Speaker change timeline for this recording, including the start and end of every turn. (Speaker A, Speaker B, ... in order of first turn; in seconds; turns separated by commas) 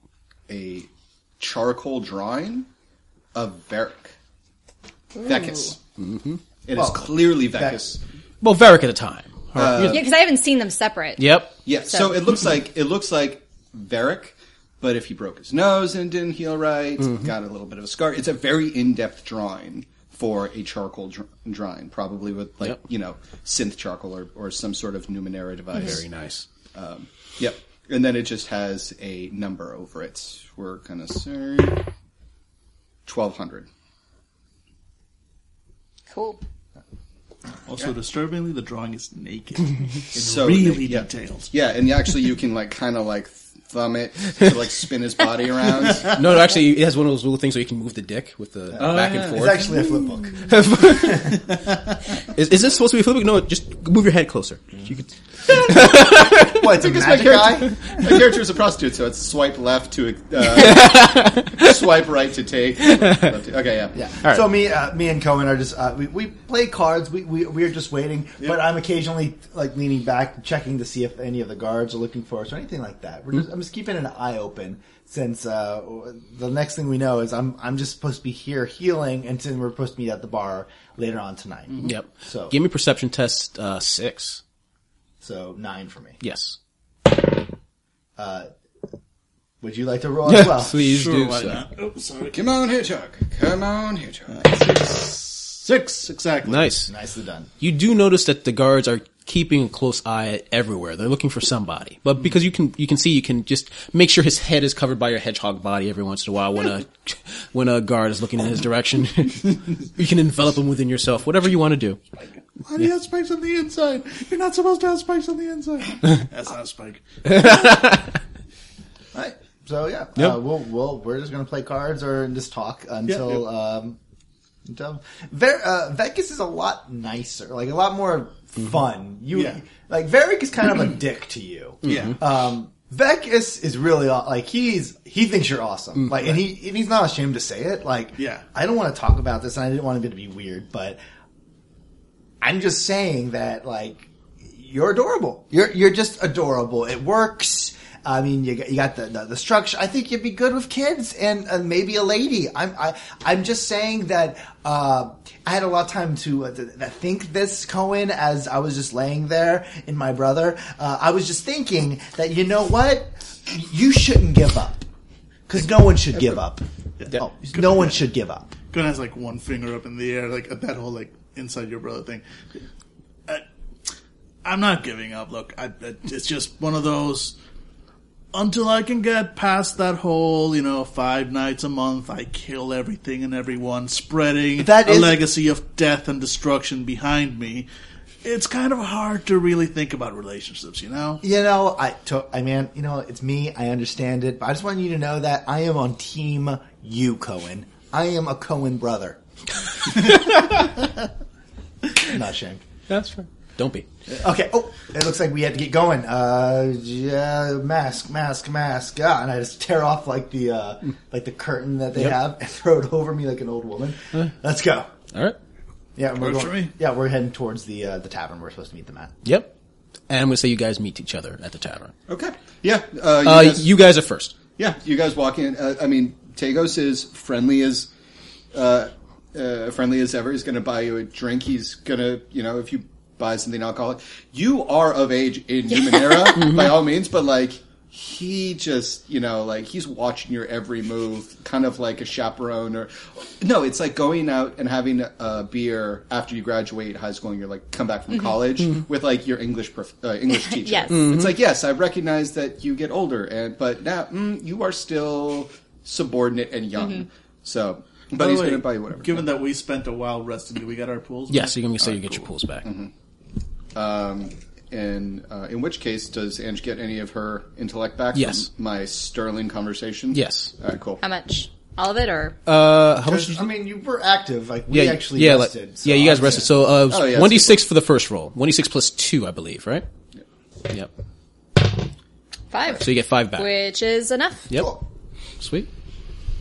Speaker A: 0.5-0.9, Speaker A: 1.4-2.7, Speaker A: 3.3-4.1, Speaker B: 5.1-5.7, Speaker A: 5.2-5.8, Speaker C: 6.0-6.4, Speaker A: 6.7-8.0, Speaker D: 6.7-7.8, Speaker C: 8.4-10.1, Speaker A: 9.5-10.1, Speaker B: 9.9-12.2, Speaker C: 11.2-11.5, Speaker A: 11.6-26.0, Speaker C: 25.7-26.4, Speaker A: 26.7-31.8, Speaker A: 33.0-33.7, Speaker B: 36.1-36.4, Speaker E: 37.7-41.5, Speaker A: 40.1-46.2, Speaker C: 46.1-49.9, Speaker D: 48.7-51.4, Speaker A: 48.8-49.7, Speaker C: 50.4-51.5, Speaker C: 52.2-57.4, Speaker D: 55.5-57.8, Speaker A: 56.8-64.0, Speaker C: 57.9-58.2, Speaker C: 60.4-61.9, Speaker C: 62.9-63.3, Speaker D: 63.9-82.5, Speaker C: 81.8-84.4, Speaker D: 85.2-86.2, Speaker C: 86.2-86.6, Speaker D: 88.2-88.5, Speaker D: 89.6-90.8, Speaker C: 90.2-91.6, Speaker E: 90.8-92.4, Speaker A: 92.3-94.5, Speaker E: 94.3-96.7, Speaker C: 96.4-96.9, Speaker D: 96.9-97.5, Speaker C: 97.6-112.0, Speaker E: 112.6-117.8, Speaker C: 117.2-118.1, Speaker D: 119.1-124.0, Speaker E: 123.1-123.4, Speaker D: 124.7-141.0, Speaker E: 129.3-129.6, Speaker E: 131.8-132.2, Speaker C: 131.9-132.1, Speaker E: 138.2-138.4, Speaker D: 142.4-164.8, Speaker D: 165.5-166.6, Speaker E: 167.0-167.9, Speaker D: 167.2-168.5, Speaker E: 168.7-172.6, Speaker E: 174.4-177.3, Speaker E: 178.3-187.7, Speaker D: 184.6-185.2, Speaker E: 188.2-191.2, Speaker D: 191.2-199.2, Speaker D: 202.0-202.6, Speaker C: 202.9-203.9, Speaker D: 204.1-214.9, Speaker D: 216.0-219.1, Speaker E: 216.2-216.7, Speaker C: 219.2-219.5, Speaker C: 220.1-221.9, Speaker A: 222.1-223.7, Speaker C: 223.2-224.3, Speaker A: 224.6-227.9, Speaker A: 228.5-259.3, Speaker C: 236.3-236.8, Speaker B: 250.4-251.0, Speaker C: 250.9-251.3, Speaker E: 258.1-262.2, Speaker C: 261.3-262.6, Speaker A: 262.6-262.9, Speaker A: 263.7-271.0, Speaker C: 268.1-268.5, Speaker C: 270.1-270.5, Speaker B: 271.0-272.4, Speaker C: 272.4-273.5, Speaker D: 273.0-276.5, Speaker C: 274.7-279.9, Speaker A: 276.9-277.6, Speaker B: 282.5-284.5, Speaker C: 282.8-283.5, Speaker C: 284.5-284.8, Speaker C: 285.4-285.7